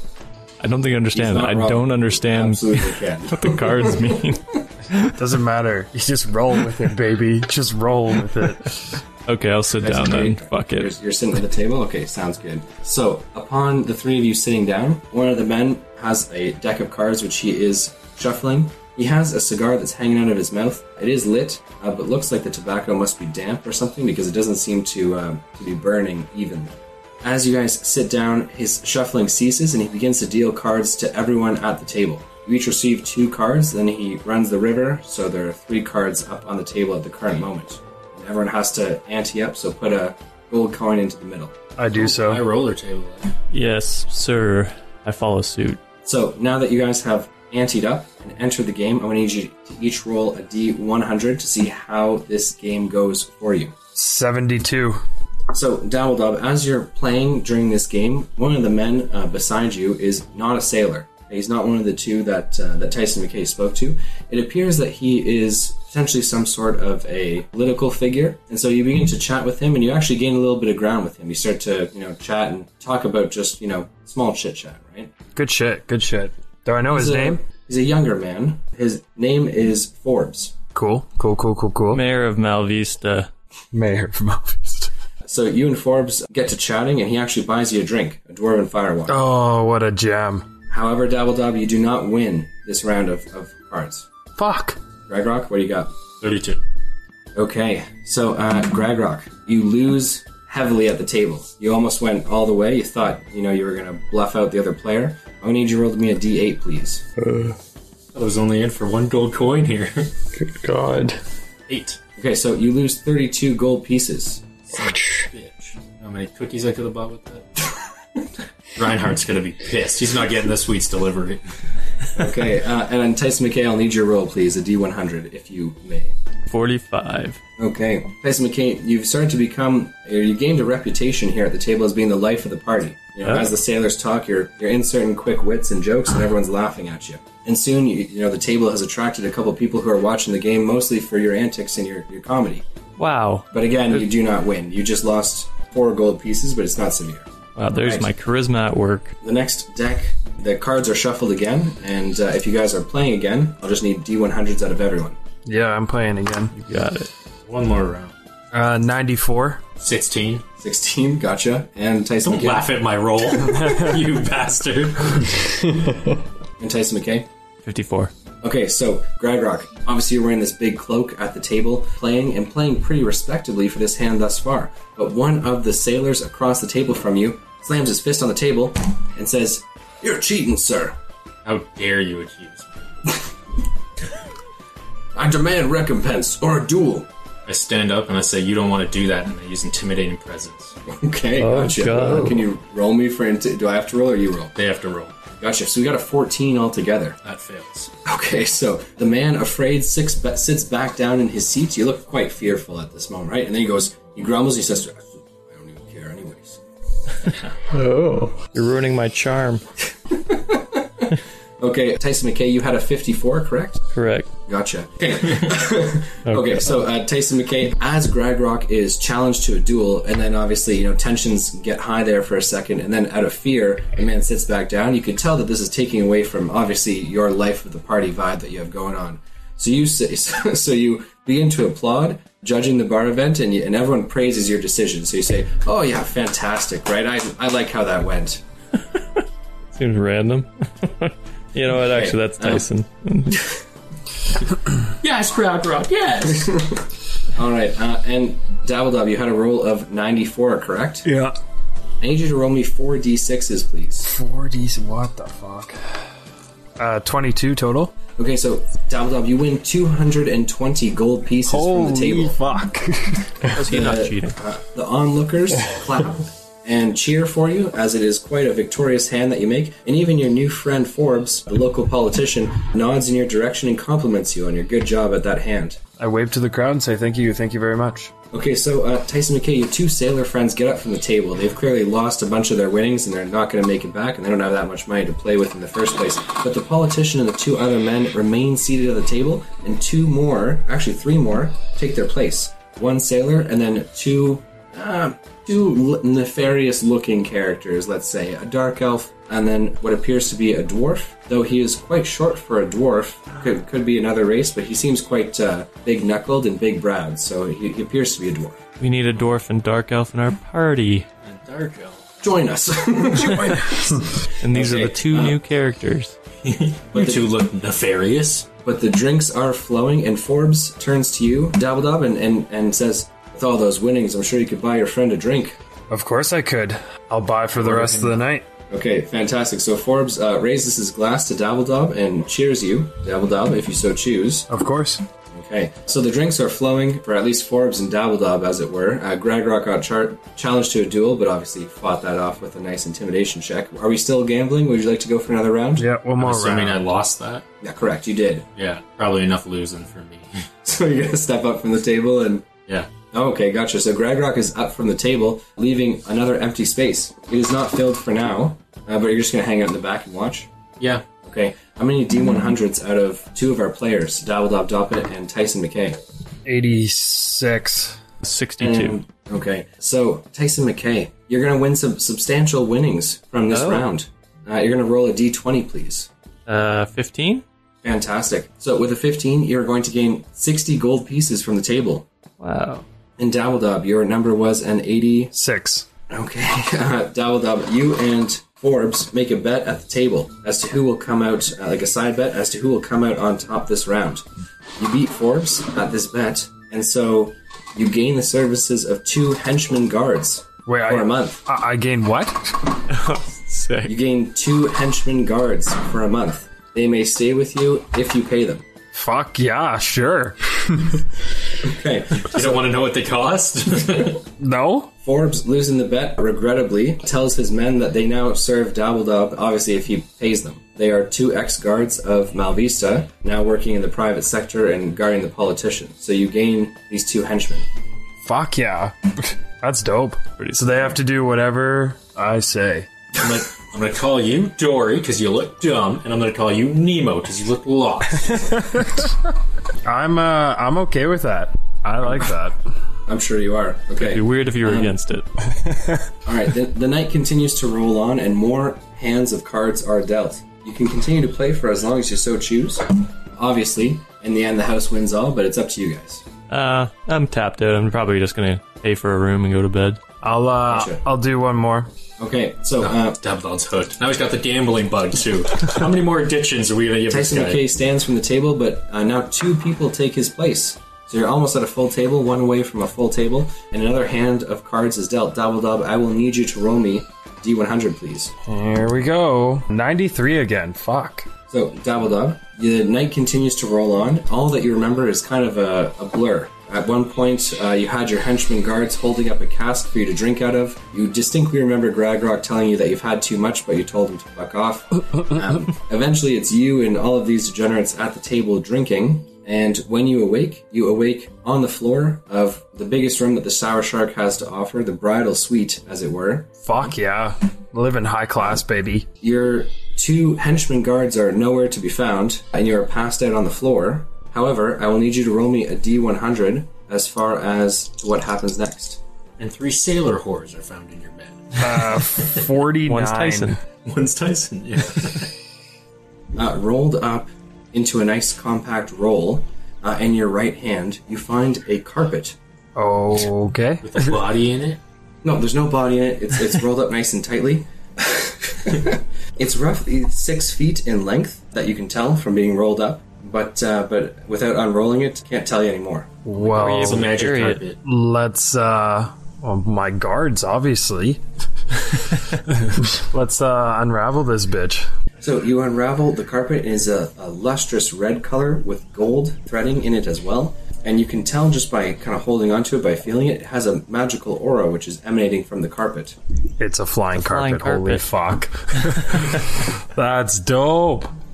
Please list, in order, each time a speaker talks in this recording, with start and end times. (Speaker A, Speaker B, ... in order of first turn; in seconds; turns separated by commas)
Speaker A: 0.6-5.2, Speaker B: 1.1-3.7, Speaker C: 5.2-9.0, Speaker A: 9.2-10.9, Speaker B: 9.8-41.5, Speaker C: 41.8-42.4, Speaker D: 41.9-43.3, Speaker A: 43.5-45.8, Speaker B: 46.0-53.7, Speaker C: 53.9-55.0, Speaker B: 55.5-75.1, Speaker C: 75.3-77.4, Speaker B: 76.9-80.5, Speaker C: 80.7-82.0, Speaker A: 81.9-83.3, Speaker C: 83.7-84.9, Speaker B: 85.2-89.2, Speaker C: 89.1-90.5, Speaker B: 90.7-94.1, Speaker C: 94.4-94.8, Speaker B: 95.1-95.9, Speaker D: 96.2-96.6, Speaker B: 97.3-107.0, Speaker E: 107.2-107.5, Speaker D: 108.1-110.1, Speaker E: 110.3-111.2, Speaker D: 111.7-112.0, Speaker B: 112.2-114.5, Speaker D: 114.7-117.5, Speaker D: 118.7-121.5, Speaker B: 122.1-126.1, Speaker A: 126.5-127.4, Speaker B: 127.6-142.6, Speaker A: 143.0-143.5, Speaker B: 143.5-148.1, Speaker A: 147.6-149.1, Speaker B: 149.2-155.2, Speaker C: 155.4-156.5, Speaker A: 156.5-157.1, Speaker D: 157.5-158.1, Speaker C: 158.5-159.6, Speaker D: 159.8-160.4, Speaker B: 160.6-162.7, Speaker D: 162.2-165.4, Speaker C: 163.5-163.9, Speaker B: 166.6-167.3, Speaker A: 167.6-168.1, Speaker B: 168.4-180.9, Speaker D: 181.4-183.1, Speaker B: 185.1-187.1, Speaker D: 187.4-190.8, Speaker B: 190.9-194.5, Speaker A: 191.4-192.4, Speaker D: 194.6-195.1, Speaker B: 195.4-197.2, Speaker D: 197.2-197.9, Speaker B: 198.0-206.6, Speaker E: 207.7-208.5, Speaker A: 208.5-209.6, Speaker B: 210.1-213.8, Speaker A: 213.9-214.3, Speaker B: 214.5-238.4, Speaker A: 216.2-216.7, Speaker A: 239.7-243.5, Speaker B: 241.9-242.7, Speaker D: 245.0-246.6, Speaker B: 247.3-251.1, Speaker C: 251.1-251.3, Speaker B: 252.0-254.1, Speaker C: 254.1-255.8, Speaker C: 256.8-257.9, Speaker B: 258.2-262.4, Speaker C: 261.5-263.3, Speaker A: 263.5-264.4, Speaker B: 263.7-275.8, Speaker C: 276.0-278.1, Speaker B: 278.3-308.6, Speaker A: 308.8-311.1, Speaker D: 311.2-312.0, Speaker B: 312.2-315.4, Speaker A: 313.2-313.6, Speaker A: 314.4-316.1, Speaker D: 316.4-318.5, Speaker B: 316.9-317.2, Speaker B: 318.6-325.6, Speaker C: 325.9-328.4, Speaker D: 327.6-328.1, Speaker B: 328.7-334.5, Speaker C: 334.5-335.1, Speaker B: 335.3-345.9, Speaker C: 345.8-346.8, Speaker D: 346.2-347.4, Speaker B: 347.6-348.5, Speaker D: 348.6-350.4, Speaker B: 350.6-352.5, Speaker B: 353.1-360.5, Speaker B: 361.2-366.0, Speaker C: 366.4-368.0, Speaker A: 368.2-369.0, Speaker B: 368.6-376.1, Speaker A: 373.5-373.9, Speaker A: 376.5-377.4, Speaker B: 377.8-382.1, Speaker A: 382.4-382.8, Speaker B: 383.2-385.3, Speaker C: 385.3-385.9, Speaker B: 386.1-394.2, Speaker B: 394.8-401.4, Speaker C: 400.6-402.6, Speaker A: 402.9-403.9, Speaker B: 403.9-408.6, Speaker C: 408.9-411.0, Speaker B: 411.6-412.6, Speaker D: 412.1-414.2, Speaker C: 414.4-414.9, Speaker B: 415.0-427.6, Speaker C: 428.2-432.9, Speaker A: 430.4-431.0, Speaker D: 433.2-438.6, Speaker C: 438.2-439.0, Speaker C: 439.8-442.6, Speaker B: 443.1-444.9, Speaker A: 444.0-445.3, Speaker C: 445.6-445.9, Speaker B: 446.2-456.2, Speaker A: 456.5-460.0, Speaker C: 460.2-461.9, Speaker B: 460.6-461.0, Speaker B: 462.2-463.2, Speaker D: 462.8-467.6, Speaker B: 467.1-478.3, Speaker C: 478.4-481.3, Speaker B: 481.5-506.6, Speaker C: 506.6-509.1, Speaker B: 509.2-519.0, Speaker D: 519.4-522.5, Speaker C: 521.6-523.6, Speaker A: 522.9-523.6, Speaker D: 523.8-525.3, Speaker B: 526.4-532.4, Speaker C: 532.7-534.2, Speaker D: 533.8-534.8, Speaker B: 535.2-546.1, Speaker C: 546.2-547.1, Speaker A: 546.4-547.6, Speaker D: 546.5-547.8, Speaker C: 547.8-551.2, Speaker C: 552.5-554.9, Speaker B: 555.2-566.1, Speaker C: 566.6-571.1, Speaker A: 567.1-568.1